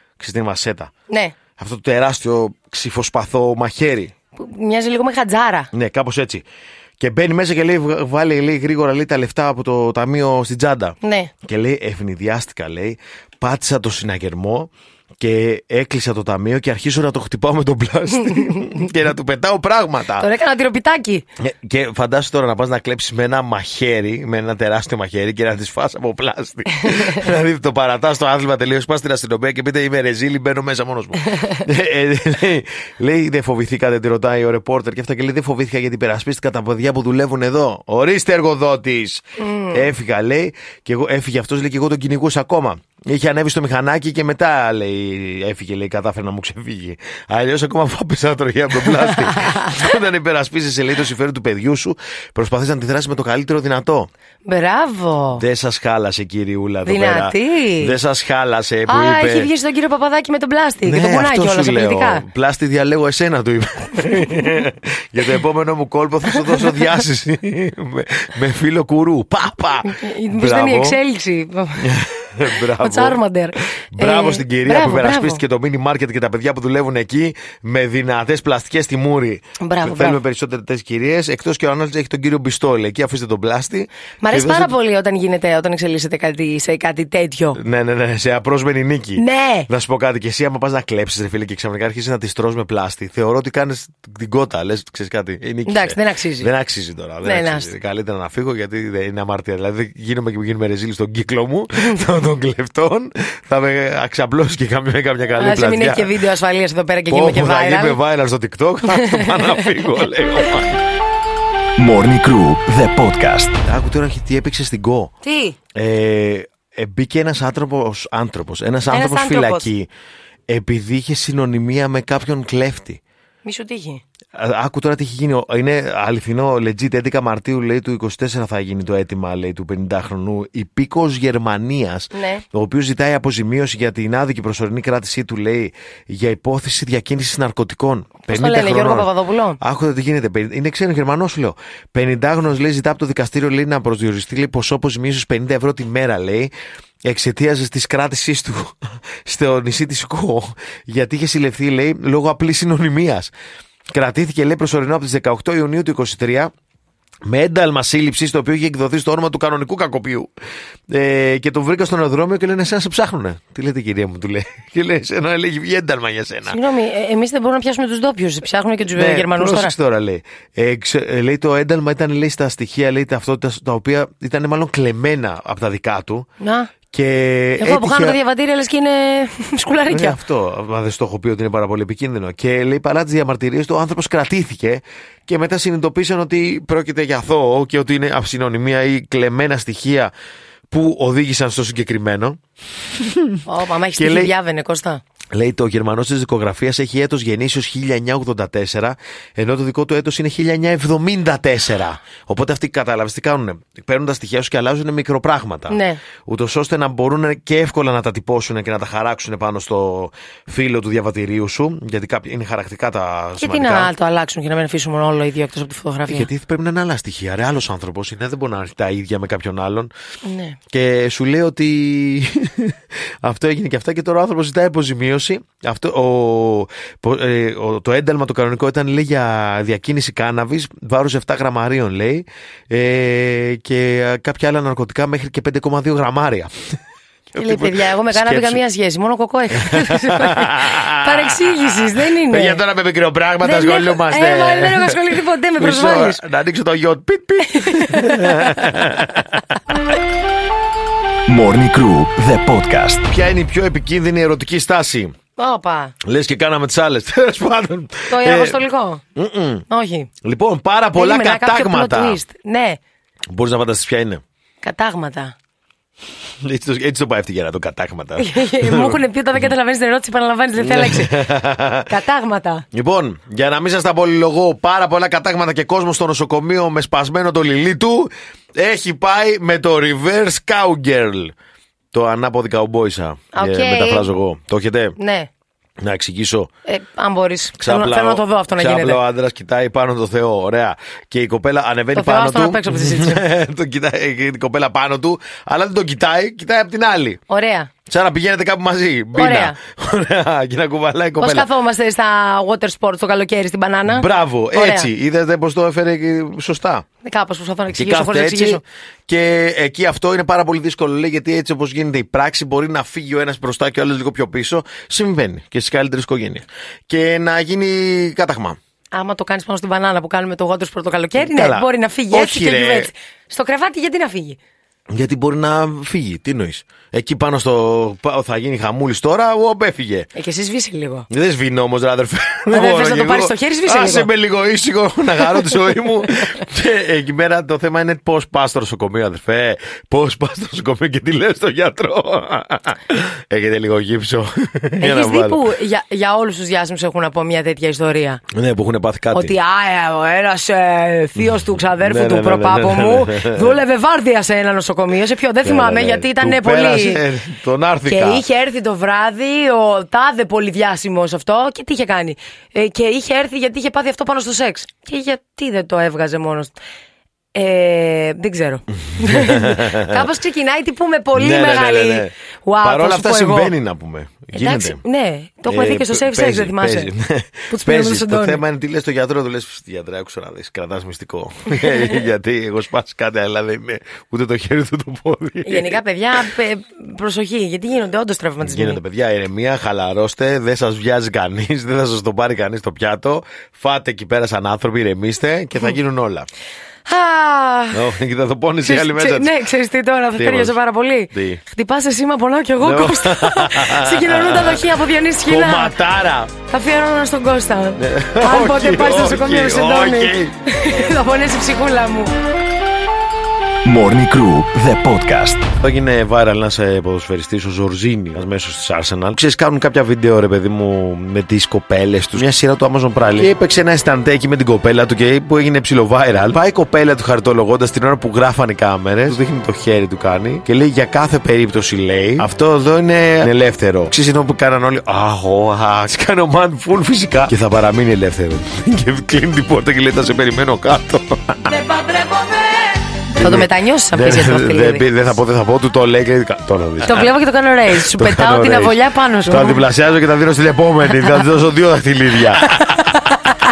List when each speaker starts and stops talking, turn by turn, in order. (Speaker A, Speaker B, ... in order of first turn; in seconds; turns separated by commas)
Speaker A: 0.2-0.9, Speaker B: 1.1-1.3, Speaker A: 1.6-4.1, Speaker B: 4.4-5.7, Speaker A: 5.7-6.4, Speaker A: 7.0-20.3, Speaker B: 11.0-11.3, Speaker B: 20.2-21.2, Speaker A: 21.4-54.1, Speaker B: 39.4-39.8, Speaker B: 49.3-49.7, Speaker B: 54.5-55.4, Speaker A: 55.4-59.5, Speaker B: 56.9-57.9, Speaker B: 58.9-62.2, Speaker A: 60.8-71.0, Speaker B: 69.8-71.9, Speaker A: 71.8-73.2, Speaker B: 72.5-75.4, Speaker A: 73.9-84.7, Speaker B: 79.6-80.2, Speaker B: 84.2-87.6, Speaker A: 87.5-106.1, Speaker B: 89.2-89.7, Speaker B: 95.7-96.5, Speaker B: 97.2-97.7, Speaker B: 105.4-108.0, Speaker A: 107.1-110.8, Speaker B: 108.9-109.7, Speaker C: 111.8-113.6, Speaker A: 113.7-115.1, Speaker B: 115.2-115.6, Speaker A: 115.7-119.9, Speaker B: 118.9-119.7, Speaker A: 120.5-123.0, Speaker B: 123.4-124.0, Speaker A: 124.3-146.5, Speaker B: 132.1-132.4, Speaker B: 138.3-139.6, Speaker A: 147.0-153.3, Speaker A: 153.9-156.5, Speaker A: 157.2-160.3, Speaker A: 160.9-166.6, Speaker B: 166.4-169.7, Speaker A: 168.9-176.3, Speaker B: 176.4-176.7, Speaker A: 176.9-178.2, Speaker B: 177.6-180.2, Speaker A: 179.9-190.1, Speaker A: 190.7-192.4, Speaker A: 192.9-193.4, Speaker B: 193.4-195.0, Speaker A: 193.9-194.3, Speaker A: 195.3-213.9, Speaker B: 205.7-206.0, Speaker B: 213.4-216.3, Speaker A: 216.1-219.9, Speaker B: 220.2-220.6, Speaker A: 220.7-236.7, Speaker A: 237.3-238.6, Speaker B: 237.4-242.6, Speaker A: 239.5-249.6, Speaker B: 243.4-246.2, Speaker B: 247.5-248.6, Speaker C: 251.3-253.1, Speaker A: 253.1-255.1, Speaker B: 255.4-255.9, Speaker A: 256.0-258.6, Speaker B: 258.1-259.0, Speaker A: 259.1-259.6, Speaker B: 259.7-260.1, Speaker A: 260.2-262.2, Speaker B: 260.9-262.8, Speaker A: 263.3-264.2, Speaker B: 264.6-265.3, Speaker A: 266.4-269.0, Speaker B: 268.2-271.3, Speaker A: 270.6-271.9, Speaker B: 271.9-272.6, Speaker A: 272.7-281.3, Speaker A: 281.9-284.9, Speaker B: 283.3-284.1, Speaker B: 285.0-285.3, Speaker A: 285.8-286.5, Speaker B: 286.6-289.0, Speaker A: 287.6-297.2, Speaker B: 291.9-293.2, Speaker B: 297.3-297.7, Speaker A: 297.9-301.5, Speaker B: 299.1-299.6, Speaker B: 301.2-304.9, Speaker A: 303.9-306.9, Speaker B: 307.0-308.6, Speaker A: 307.7-318.6, Speaker B: 318.9-324.4, Speaker A: 321.2-322.9, Speaker A: 324.9-330.1, Speaker B: 330.1-331.1, Speaker A: 331.1-345.4, Speaker B: 332.5-334.1, Speaker B: 344.8-348.2, Speaker A: 348.3-349.3, Speaker B: 349.1-357.0, Speaker A: 351.2-353.6, Speaker A: 355.4-358.2, Speaker B: 357.9-366.5, Speaker B: 367.3-373.5, Speaker A: 368.9-370.0, Speaker A: 371.1-374.8, Speaker B: 374.3-376.9, Speaker A: 375.5-385.8, Speaker B: 377.5-378.4, Speaker B: 385.4-388.8, Speaker A: 388.4-396.3, Speaker B: 396.9-397.8, Speaker A: 397.7-399.3, Speaker B: 398.6-405.8, Speaker A: 400.1-400.6, Speaker A: 401.1-401.4, Speaker A: 402.6-404.7, Speaker A: 405.2-406.3, Speaker B: 406.5-412.1, Speaker A: 407.8-410.5, Speaker C: 413.6-415.5, Speaker A: 415.6-441.6, Speaker B: 441.5-444.9, Speaker A: 443.2-447.1, Speaker B: 446.8-449.6, Speaker A: 447.7-452.7, Speaker B: 452.6-453.3